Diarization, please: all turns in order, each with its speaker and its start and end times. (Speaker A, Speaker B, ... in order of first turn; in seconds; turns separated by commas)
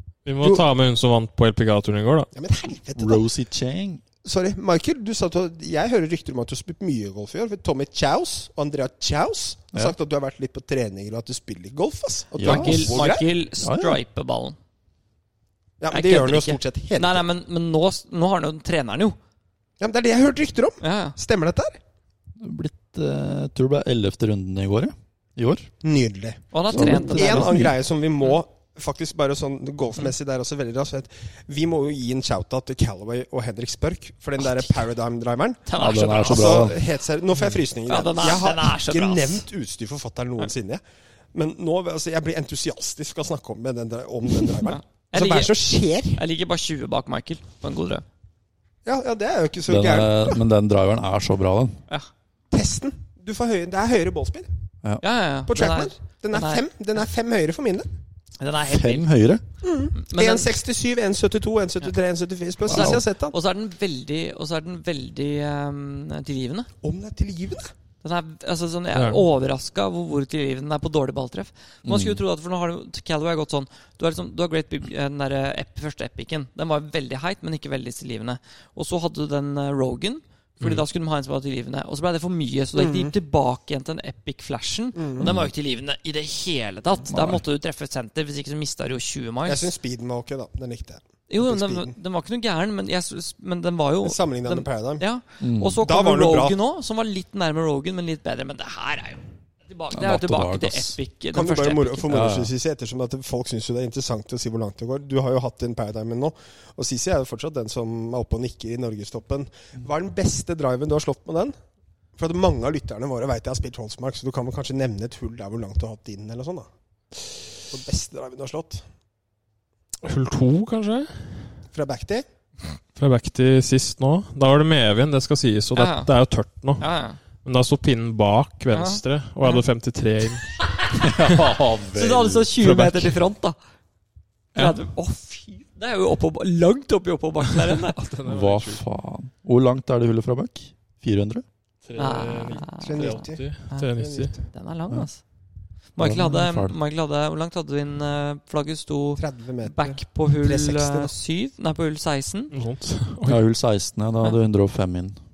Speaker A: 0.2-2.3, Speaker B: 2.3-3.2, Speaker C: 3.0-4.0, Speaker B: 4.2-13.3, Speaker C: 12.4-14.0, Speaker D: 12.4-14.6, Speaker B: 15.8-17.2, Speaker D: 15.9-19.2, Speaker B: 19.8-21.8, Speaker D: 20.8-21.2, Speaker C: 22.4-25.7, Speaker B: 25.8-35.6, Speaker D: 26.5-27.7, Speaker C: 26.7-27.8, Speaker D: 35.7-36.7, Speaker C: 35.8-36.8, Speaker B: 36.2-40.8, Speaker D: 37.9-39.4, Speaker B: 41.3-46.2, Speaker D: 44.6-45.5, Speaker D: 46.1-48.0, Speaker B: 48.9-50.4, Speaker C: 49.7-51.8, Speaker B: 52.5-54.5, Speaker D: 55.0-56.7, Speaker B: 55.5-57.9, Speaker D: 58.4-59.1, Speaker C: 58.7-59.4, Speaker B: 59.6-63.4, Speaker D: 60.0-60.5, Speaker D: 62.7-66.7, Speaker C: 62.7-63.0, Speaker B: 66.8-67.7, Speaker D: 68.0-89.7, Speaker A: 68.9-69.2, Speaker C: 71.8-72.2, Speaker B: 82.8-83.1, Speaker B: 85.0-85.3, Speaker C: 85.2-85.5, Speaker C: 87.1-87.4, Speaker B: 89.5-91.9, Speaker D: 91.3-102.1, Speaker B: 94.0-95.0, Speaker C: 95.4-95.8, Speaker B: 95.8-96.6, Speaker C: 99.9-101.0, Speaker B: 101.3-111.5, Speaker C: 102.1-102.5, Speaker B: 112.2-116.7, Speaker B: 117.6-118.8, Speaker A: 120.0-121.4, Speaker B: 121.7-122.3, Speaker A: 123.0-126.8, Speaker D: 125.8-126.1, Speaker D: 126.8-127.2, Speaker A: 127.4-130.5, Speaker D: 128.7-129.6, Speaker C: 130.9-132.7, Speaker D: 131.9-133.6, Speaker A: 132.6-133.1, Speaker D: 134.6-138.0, Speaker A: 137.7-138.8, Speaker C: 138.2-141.4, Speaker A: 141.8-144.3, Speaker D: 142.0-145.2, Speaker B: 142.8-144.5, Speaker D: 145.9-152.5, Speaker C: 146.0-146.8, Speaker B: 149.2-151.1, Speaker A: 152.5-153.4, Speaker C: 153.2-155.2